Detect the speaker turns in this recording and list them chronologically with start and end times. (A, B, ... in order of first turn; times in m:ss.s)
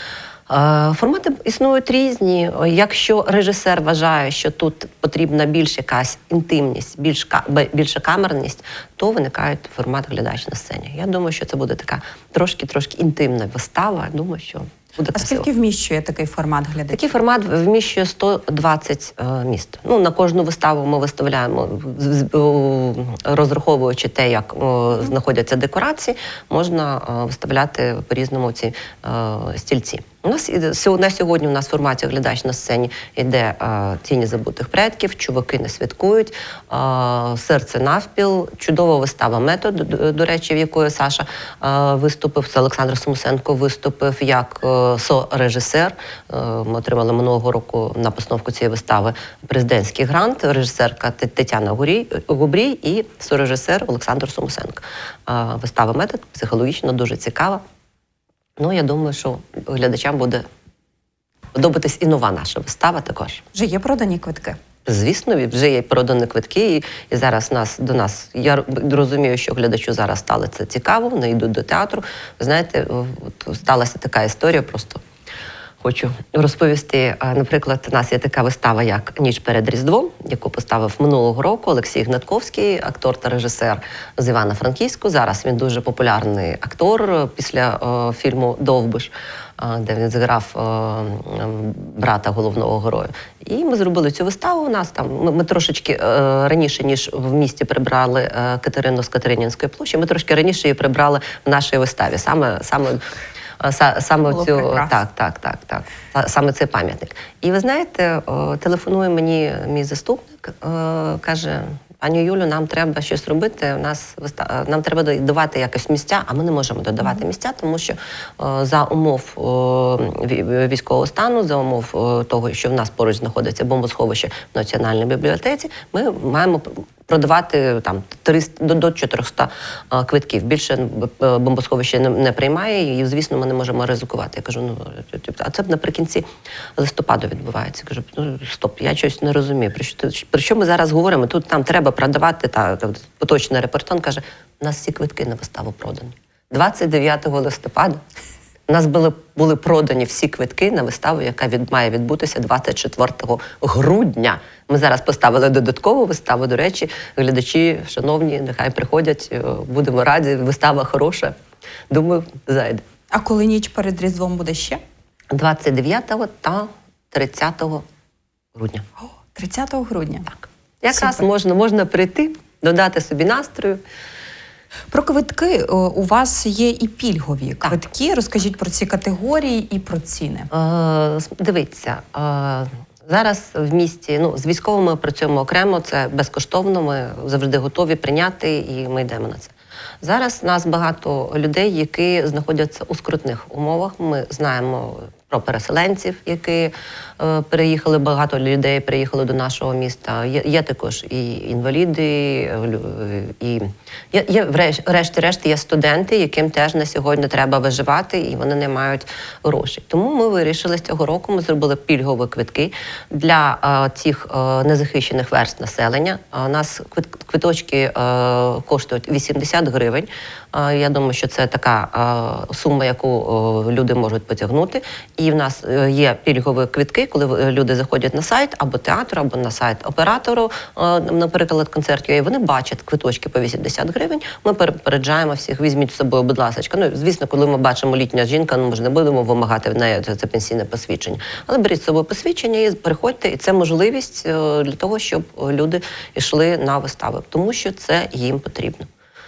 0:00.5-0:15.5 A
0:15.2-0:17.1 B
0:16.9-0:57.6 A
0:58.6-1:00.4 A
1:01.5-1:03.4 A
1:03.5-1:04.6 B
1:04.8-1:15.0 A
1:15.8-1:43.0 A
1:43.6-2:16.2 A
1:44.3-1:44.9 B
2:16.8-2:28.0 A
2:28.7-2:41.3 A
2:41.9-2:42.8 A
2:43.1-2:44.8 B
2:45.3-2:47.8 A
2:48.6-2:48.8 A
2:49.0-2:50.3 B
2:50.3-2:53.8 A
2:50.9-2:51.2 B
2:54.9-3:00.5 B
3:00.5-4:08.9 A